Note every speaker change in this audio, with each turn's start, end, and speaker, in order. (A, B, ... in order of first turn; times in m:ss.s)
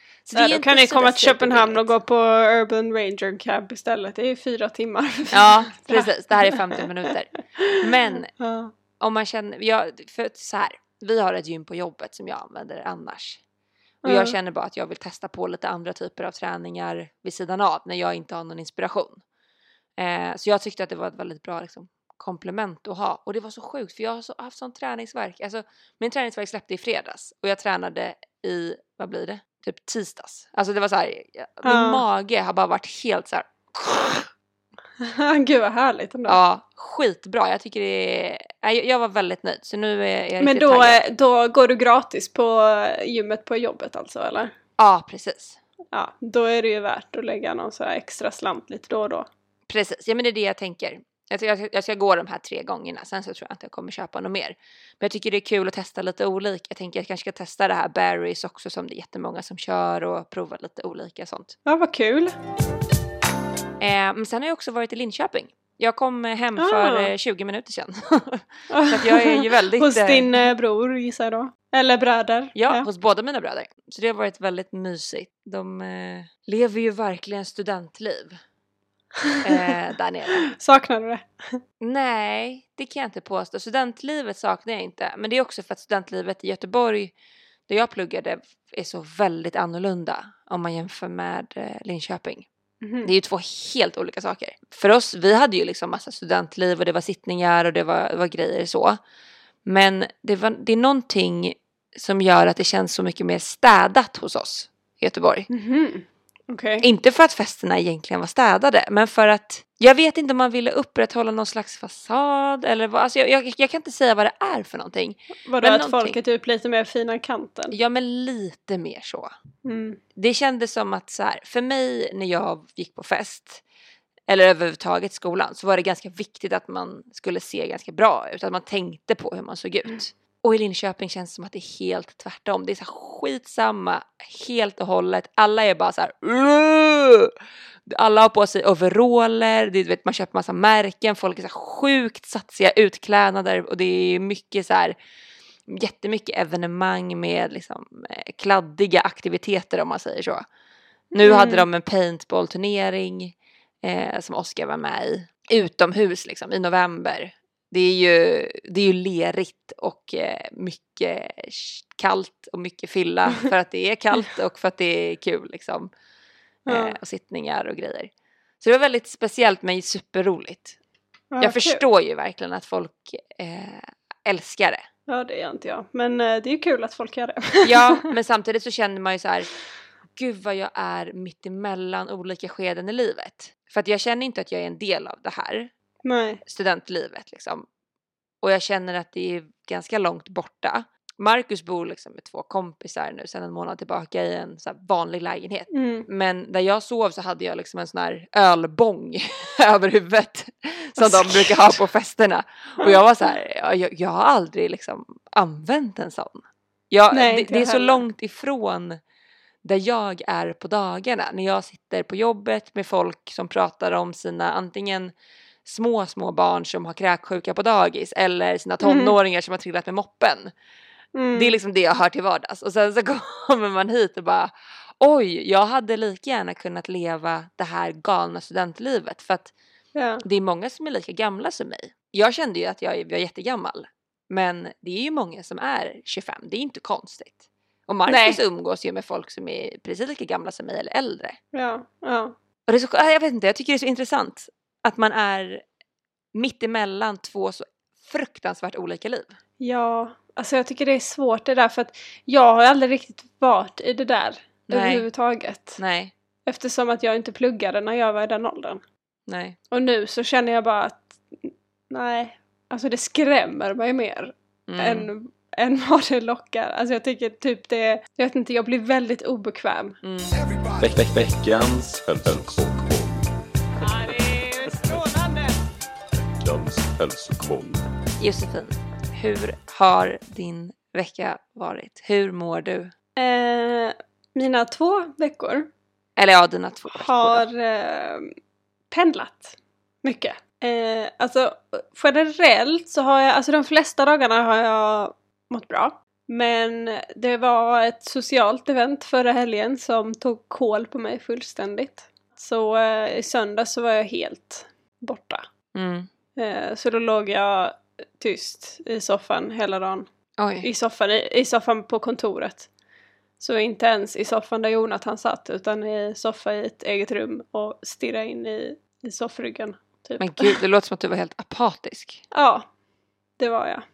0:00.2-0:01.9 A
0:00.3-0:06.8 B
0:05.3-0:08.3 A
0:08.4-0:08.7 B
0:09.0-0:13.4 A
0:14.0-0:14.3 B
0:14.0-0:19.2 A
0:20.0-0:34.3 A
0:31.6-0:32.0 B
0:35.0-0:36.4 B
0:36.3-0:41.0 A
0:40.4-0:44.5 B
0:44.8-0:45.6 A
0:45.9-0:49.3 B
0:49.7-1:01.6 A
1:01.6-1:02.3 B
1:03.8-1:10.3 A
1:06.6-1:07.1 B
1:08.7-1:12.9 B
1:12.5-1:18.4 A
1:19.3-1:19.7 B
1:19.4-1:20.4 A
1:20.4-1:21.6 B
1:21.8-1:27.1 A
1:27.7-1:32.5 A
1:32.8-1:33.1 B
1:33.0-1:39.0 A
1:39.6-1:45.5 A
1:45.5-1:46.8 B
1:46.8-1:56.2 A
1:55.5-1:57.7 B
1:57.7-1:59.3 A
1:59.6-2:00.0 B
2:00.2-2:03.6 A
2:04.3-2:17.3 A
2:17.8-2:24.9 A
2:25.7-2:30.4 A
2:31.1-2:45.9 A
2:31.2-2:31.6 B
2:46.7-2:47.0 B
2:46.7-2:50.8 A
2:51.3-2:51.8 B
2:51.4-2:54.8 A
2:55.1-2:58.1 B
2:57.6-2:59.5 A
3:00.1-3:05.7 A
3:06.0-3:06.4 B
3:06.4-3:07.6 A
3:08.4-3:29.0 A
3:15.7-3:16.1 B
3:21.0-3:21.7 B
3:27.1-3:28.0 B
3:29.6-3:35.1 A
3:35.6-3:40.5 A
3:38.8-3:39.1 B
3:41.1-3:41.6 B
3:41.3-3:49.5 A
3:49.9-3:50.2 B
3:50.2-4:01.4 A
3:58.0-3:58.4 B
4:01.5-4:02.4 B
4:02.7-4:05.6 A
4:06.3-4:09.3 A
4:09.6-4:15.8 B
4:14.7-4:15.1 A
4:15.8-4:16.1 A
4:16.4-4:18.8 B
4:19.3-4:19.6 A
4:19.7-4:30.0 B
4:24.7-4:25.1 A
4:30.0-4:30.4 A
4:30.8-4:33.2 C
4:33.8-4:35.6 B
4:36.3-4:37.8 C
4:38.2-4:42.9 A
4:43.2-4:45.7 B
4:46.2-4:47.4 A
4:46.9-4:48.3 B
4:48.9-5:05.5 B
5:05.7-5:06.1 A
5:06.4-5:10.1 B
5:10.4-5:10.7 A
5:10.6-5:12.7 B
5:13.4-5:20.6 B
5:20.2-5:22.2 A
5:22.3-5:22.7 B
5:23.4-5:23.8 B